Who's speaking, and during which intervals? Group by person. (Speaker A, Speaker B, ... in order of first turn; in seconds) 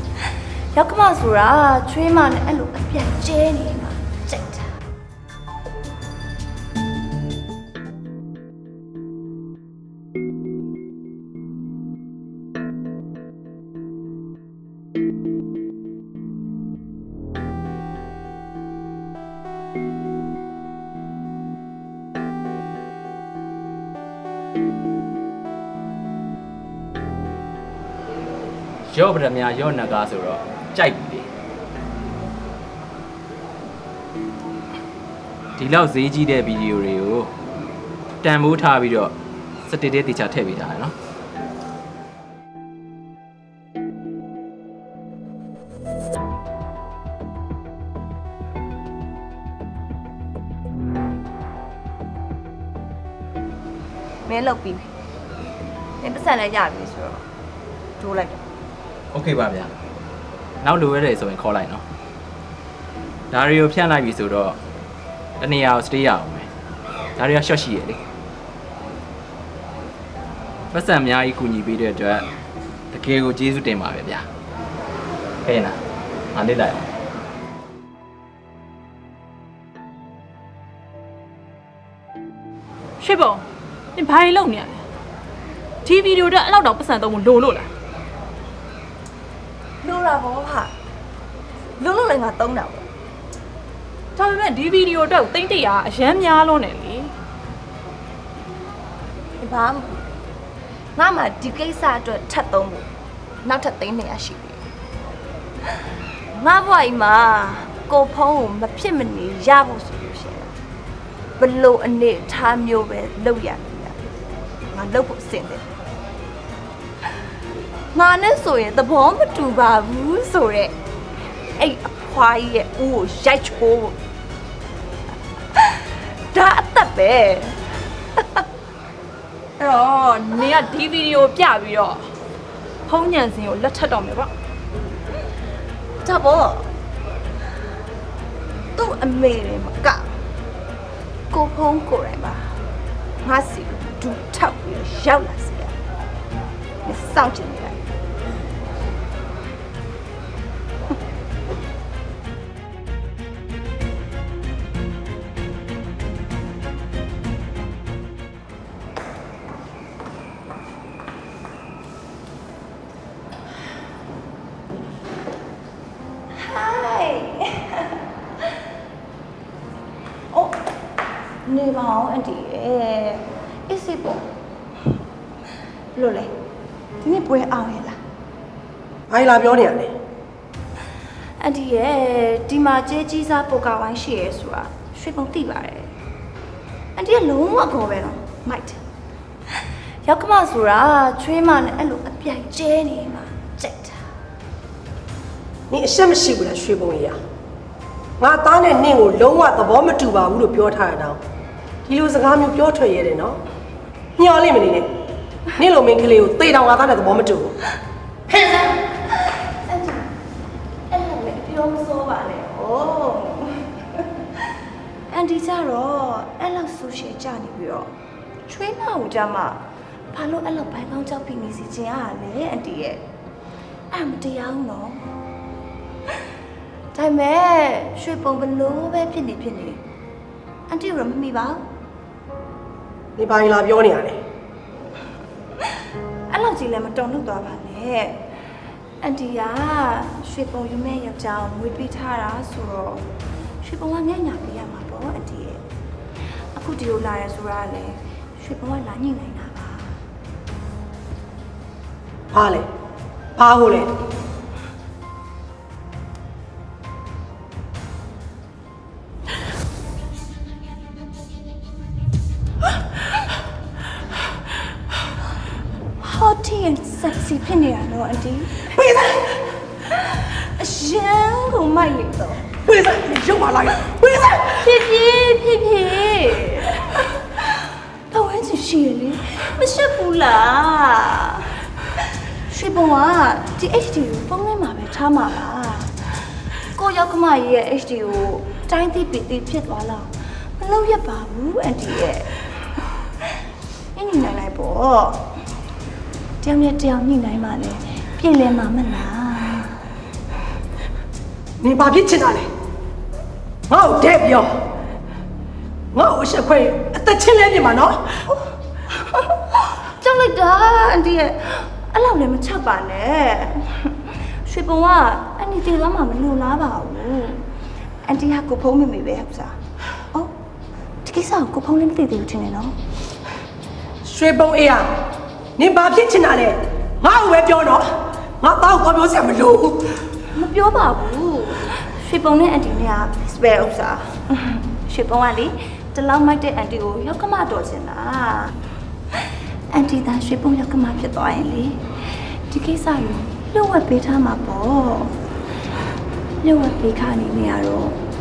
Speaker A: 0.7-4.7, 54.3-54.9, 56.0-57.2, 58.0-58.4, 89.8-90.7, 91.8-92.9, 99.4-100.1, 101.0-102.9, 103.4-104.6, 106.3-110.5, 111.4-114.0, 114.7-115.6, 117.9-120.7, 121.4-124.0, 125.5-127.6, 128.2-128.4, 136.0-136.7, 138.8-140.1, 141.3-142.6, 143.2-145.7, 146.8-147.8, 166.3-168.0, 170.3-170.6, 171.4-174.2, 175.9-176.3, 177.0-178.0, 181.4-185.9, 186.9-188.8, 190.0-194.0, 208.3-210.1, 210.9-214.4, 215.1-217.9, 218.4-223.1, 223.9-225.1, 226.9-229.8, 230.7-231.6, 236.3-238.3, 239.0-243.1, 243.6-245.6, 246.5-250.0, 266.0-268.8, 269.9-272.5, 274.5-281.6, 282.4-286.0, 286.7-292.4, 293.9-295.2, 296.4-299.8, 308.9-317.5, 318.0-319.6, 321.0-322.8, 330.3-338.6, 339.7-345.2, 346.4-348.0
Speaker B: 28.9-31.3, 35.6-37.3, 38.2-39.1, 39.6-40.9, 59.1-59.7, 60.6-61.8, 63.3-64.6, 65.4-66.5, 67.2-68.0, 70.7-72.2, 72.9-74.2, 75.4-75.8, 76.3-76.9
Speaker C: 83.0-83.5, 84.0-84.8, 85.8-87.7, 94.1-97.1, 129.6-132.1, 132.8-134.3
Speaker D: 179.1-179.9, 195.7-197.2, 198.2-201.2, 201.8-203.4, 204.2-204.9, 205.5-207.5, 233.2-234.2, 252.3-252.7, 253.3-253.9, 268.8-269.4, 272.6-274.7, 301.6-302.5, 303.7-304.5, 305.9-308.1, 324.0-324.9, 325.6-327.9, 328.4-330.0